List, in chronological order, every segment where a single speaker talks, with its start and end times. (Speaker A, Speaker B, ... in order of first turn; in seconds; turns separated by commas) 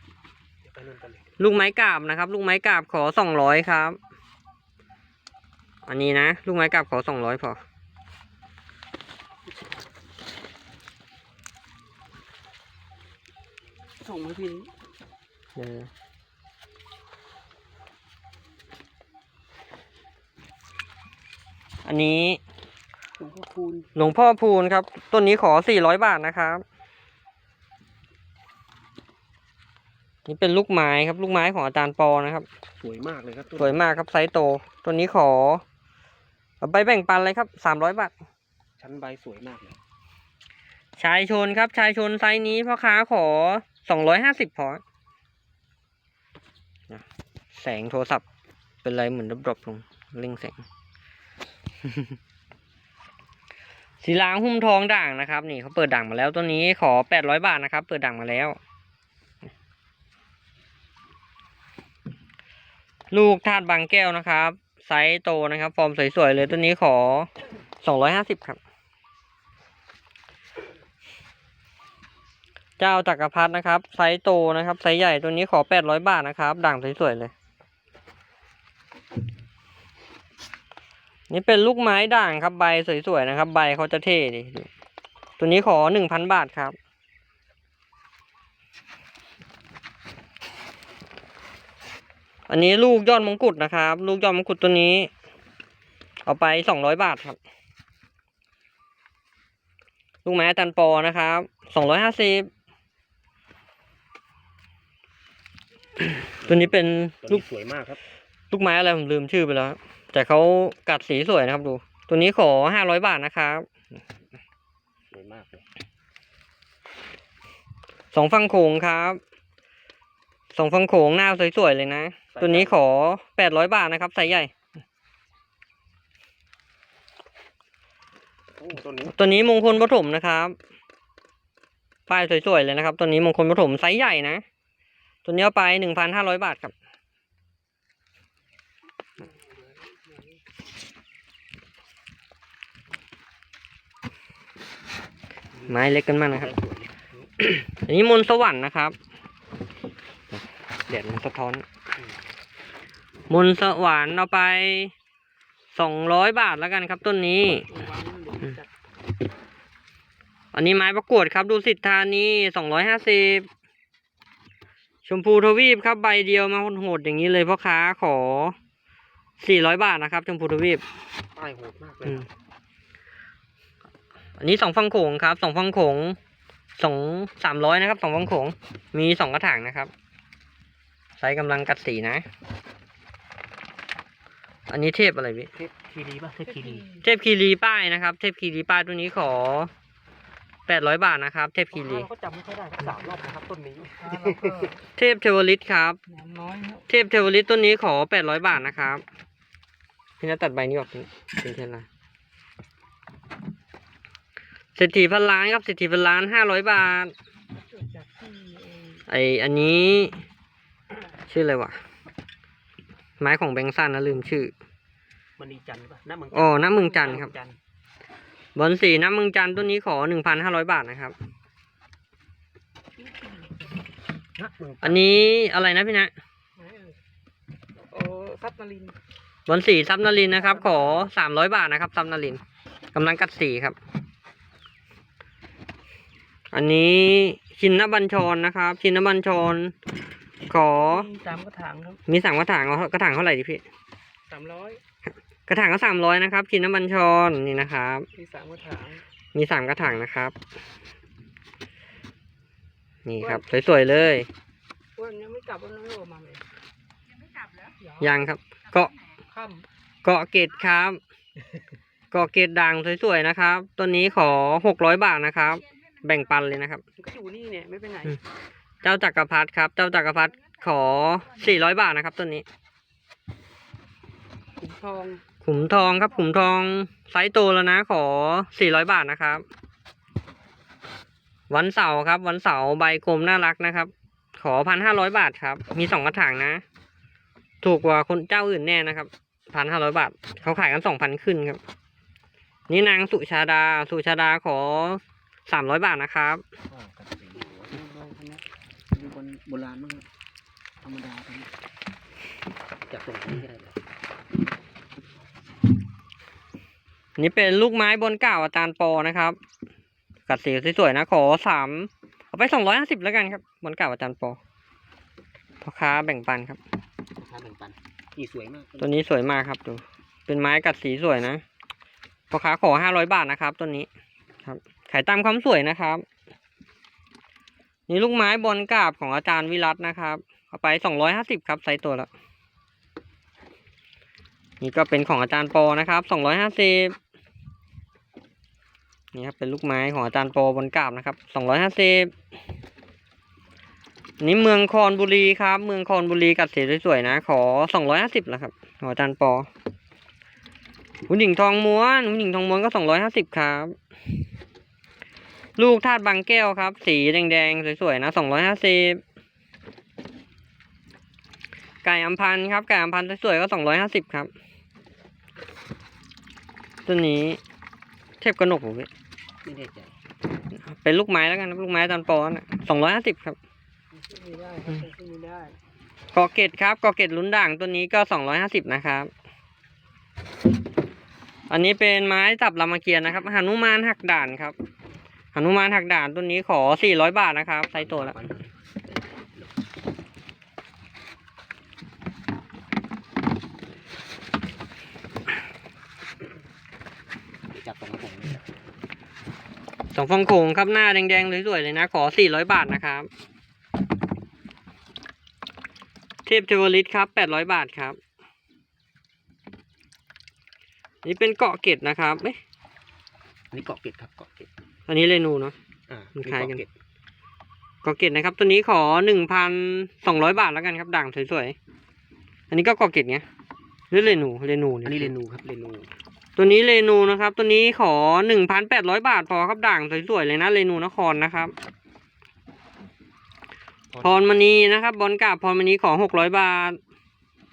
Speaker A: 0.6-1.4, Speaker B: 1.4-4.0, Speaker B: 5.8-7.6, Speaker C: 14.0-14.7, Speaker B: 15.6-15.9, Speaker B: 21.8-22.4, Speaker A: 23.2-23.9, Speaker B: 23.9-26.6, Speaker B: 30.2-32.5, Speaker A: 32.8-34.0, Speaker B: 33.6-35.6, Speaker B: 36.6-38.1, Speaker A: 38.8-39.8, Speaker B: 41.0-44.8, Speaker B: 46.9-48.2, Speaker B: 48.8-50.6, Speaker B: 51.9-52.1, Speaker B: 54.0-58.6, Speaker B: 63.1-67.3, Speaker B: 67.8-68.6, Speaker B: 72.8-77.3, Speaker B: 81.3-84.7, Speaker B: 85.4-86.8, Speaker B: 92.5-95.1, Speaker B: 96.2-97.4, Speaker B: 100.2-102.5, Speaker B: 106.4-107.4, Speaker A: 106.4-108.0, Speaker B: 108.5-113.7, Speaker A: 115.1-115.7, Speaker B: 118.1-119.2, Speaker B: 120.5-124.5, Speaker A: 122.3-122.8, Speaker A: 128.6-129.2, Speaker B: 129.1-130.6, Speaker B: 132.1-134.4, Speaker B: 135.2-136.7, Speaker A: 145.5-147.3, Speaker B: 145.7-146.6, Speaker B: 147.4-148.9, Speaker B: 150.9-151.6, Speaker B: 153.3-154.9, Speaker B: 155.7-157.7, Speaker C: 157.7-158.7, Speaker B: 160.5-163.5, Speaker B: 165.0-168.6, Speaker B: 169.4-170.8, Speaker A: 171.3-172.3, Speaker B: 174.4-176.2, Speaker B: 176.8-179.9, Speaker B: 181.2-182.2, Speaker B: 184.7-185.5, Speaker A: 185.5-186.8, Speaker C: 186.4-187.0, Speaker B: 187.0-189.7, Speaker B: 190.7-192.1, Speaker A: 191.7-194.7, Speaker C: 193.9-194.8, Speaker B: 194.9-196.0, Speaker C: 196.1-196.9, Speaker B: 196.9-199.0, Speaker B: 200.2-201.8, Speaker B: 204.7-207.1, Speaker C: 207.5-209.0, Speaker B: 209.1-210.2, Speaker B: 211.3-211.8, Speaker B: 213.2-214.5, Speaker A: 215.4-217.6, Speaker B: 216.3-217.3, Speaker B: 218.6-221.1, Speaker C: 223.0-223.6, Speaker A: 224.3-225.1, Speaker B: 224.8-226.1, Speaker C: 226.6-227.0, Speaker C: 227.9-228.9, Speaker B: 229.5-232.4, Speaker C: 230.4-231.1, Speaker B: 232.9-233.8, Speaker B: 236.5-239.7, Speaker B: 240.5-241.1, Speaker C: 240.5-242.0, Speaker B: 242.1-243.6, Speaker C: 244.3-244.8, Speaker B: 245.5-248.1, Speaker C: 248.1-249.0, Speaker B: 249.3-250.3, Speaker B: 253.1-254.3, Speaker C: 255.0-256.4, Speaker C: 257.5-258.1, Speaker B: 258.0-258.9, Speaker C: 259.3-259.6, Speaker B: 260.0-261.0, Speaker B: 262.1-266.8, Speaker C: 267.0-268.2, Speaker B: 268.8-272.4, Speaker C: 274.6-275.2, Speaker B: 275.4-279.4, Speaker B: 281.5-286.6, Speaker B: 287.6-291.6, Speaker B: 292.7-296.4, Speaker A: 296.7-300.1, Speaker A: 300.8-301.5, Speaker A: 302.8-303.8, Speaker B: 307.2-309.4, Speaker B: 310.3-314.4, Speaker B: 315.6-316.6, Speaker A: 317.1-319.1, Speaker B: 318.8-321.4, Speaker B: 322.3-323.9, Speaker B: 324.4-326.0, Speaker B: 327.9-332.1, Speaker B: 334.6-336.9, Speaker B: 339.1-342.1, Speaker B: 344.2-349.5, Speaker B: 351.1-353.7, Speaker B: 355.6-359.0, Speaker B: 361.8-364.3, Speaker B: 366.9-367.4, Speaker B: 368.2-368.9, Speaker A: 369.4-369.9, Speaker B: 370.6-373.4, Speaker C: 373.9-375.5, Speaker B: 376.1-379.1, Speaker B: 381.5-384.6, Speaker B: 385.3-388.1, Speaker A: 387.7-389.7, Speaker A: 397.5-398.4, Speaker B: 399.9-403.1, Speaker B: 406.2-408.0, Speaker B: 411.0-412.4, Speaker A: 413.5-414.5, Speaker B: 414.9-415.5, Speaker A: 415.9-416.7, Speaker B: 416.2-416.6, Speaker B: 417.8-421.6, Speaker B: 422.5-423.2, Speaker B: 423.9-425.1, Speaker A: 424.8-425.9, Speaker B: 426.4-431.5, Speaker A: 433.9-434.5, Speaker B: 434.0-436.8